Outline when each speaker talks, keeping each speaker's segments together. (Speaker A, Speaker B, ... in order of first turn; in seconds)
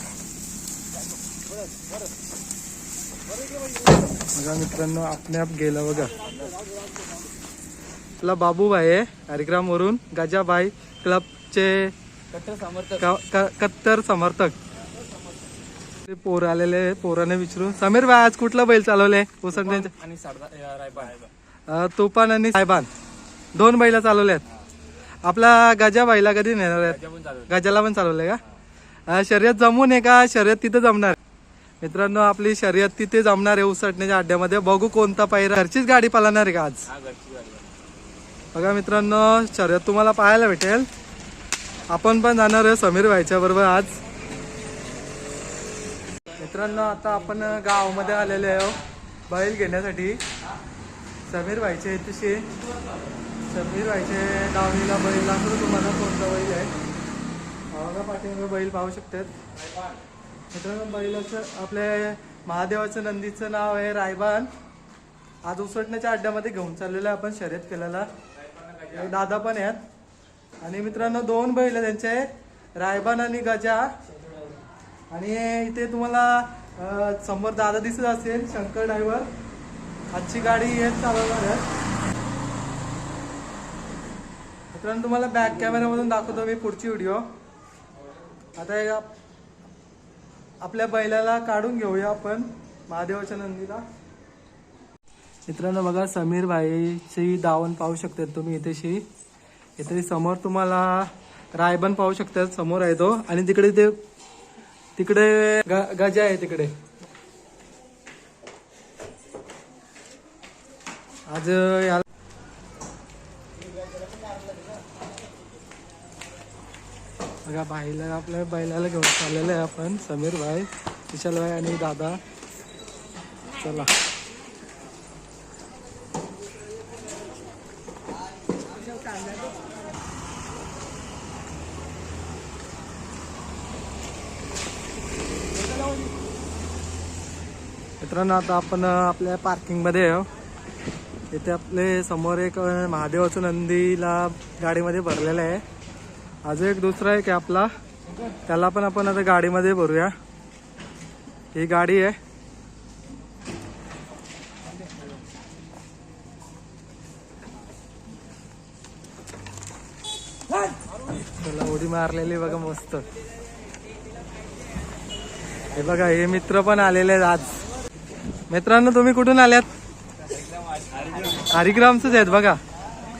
Speaker A: 4.3-6.1, 8.2-11.9, 13.0-14.6, 16.0-19.9, 21.7-22.9, 23.5-24.4, 25.2-28.4, 29.1-31.2, 31.8-36.9, 38.5-40.9, 41.9-44.0, 46.4-50.2, 51.3-52.5, 53.5-56.7, 57.7-59.3, 60.5-64.5, 65.4-68.1, 68.9-69.8, 70.6-73.9, 75.1-79.3, 80.1-81.7, 84.7-87.2, 88.6-89.1, 90.6-93.8, 95.5-99.0, 99.8-104.0, 105.0-106.7, 111.3-112.0, 117.5-122.2, 123.6-123.9, 138.0-140.3, 141.3-145.6, 146.4-147.7, 148.5-150.1, 151.5-152.2, 161.4-163.0, 165.7-167.6, 168.5-169.7, 171.5-172.6
Speaker B: 12.3-13.0, 19.5-21.3, 26.9-27.5, 36.9-37.7, 68.6-69.1, 170.9-171.4